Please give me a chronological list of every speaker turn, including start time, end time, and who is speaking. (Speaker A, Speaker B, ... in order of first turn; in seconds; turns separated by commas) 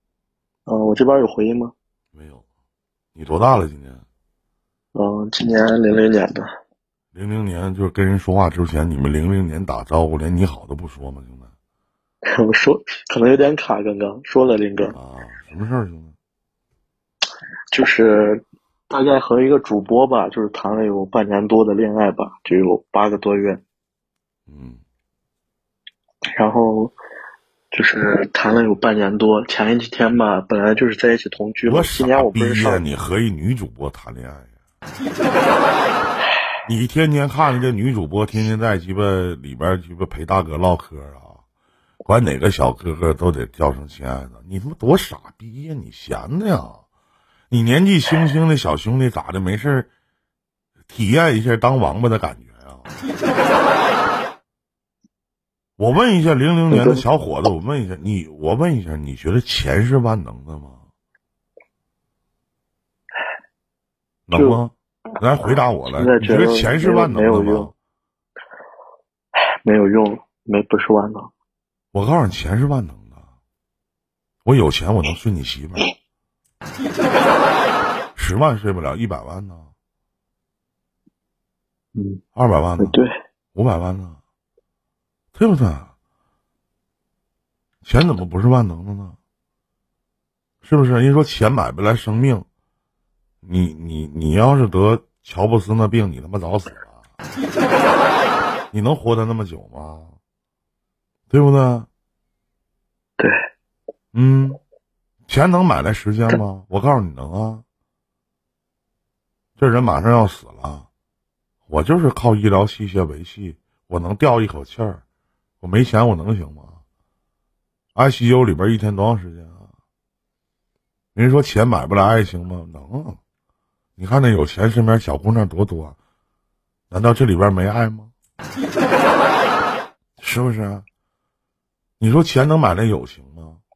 Speaker A: 0.7-1.7, Speaker B: 2.1-2.4, Speaker B: 3.1-4.0, Speaker A: 4.9-6.5, Speaker B: 7.1-11.5, Speaker A: 12.3-14.9, Speaker B: 14.9-16.1, Speaker A: 17.7-23.6, Speaker B: 24.5-24.8, Speaker A: 26.4-26.9, Speaker A: 27.7-32.9, Speaker B: 31.7-34.5, Speaker B: 36.6-41.4, Speaker B: 42.1-46.8, Speaker B: 47.5-49.9, Speaker B: 50.9-52.9, Speaker B: 55.8-60.8, Speaker A: 56.7-57.0, Speaker B: 64.3-67.7, Speaker A: 64.3-64.6, Speaker A: 66.0-67.7, Speaker A: 69.6-71.3, Speaker B: 71.9-73.2, Speaker B: 74.5-75.9, Speaker B: 78.2-79.7, Speaker A: 82.0-82.2, Speaker B: 82.3-83.0, Speaker A: 82.8-83.1, Speaker B: 83.5-84.2, Speaker B: 85.3-85.9, Speaker B: 87.8-89.2, Speaker B: 90.6-92.5, Speaker B: 93.4-97.0, Speaker B: 98.7-100.1, Speaker B: 101.3-101.9, Speaker B: 104.1-104.6, Speaker B: 105.3-107.6, Speaker B: 109.6-110.9, Speaker B: 111.7-115.0, Speaker B: 115.6-116.8, Speaker B: 118.0-119.6, Speaker B: 121.2-123.2, Speaker B: 124.0-126.0, Speaker B: 126.9-128.1, Speaker B: 130.2-130.8, Speaker B: 132.0-133.6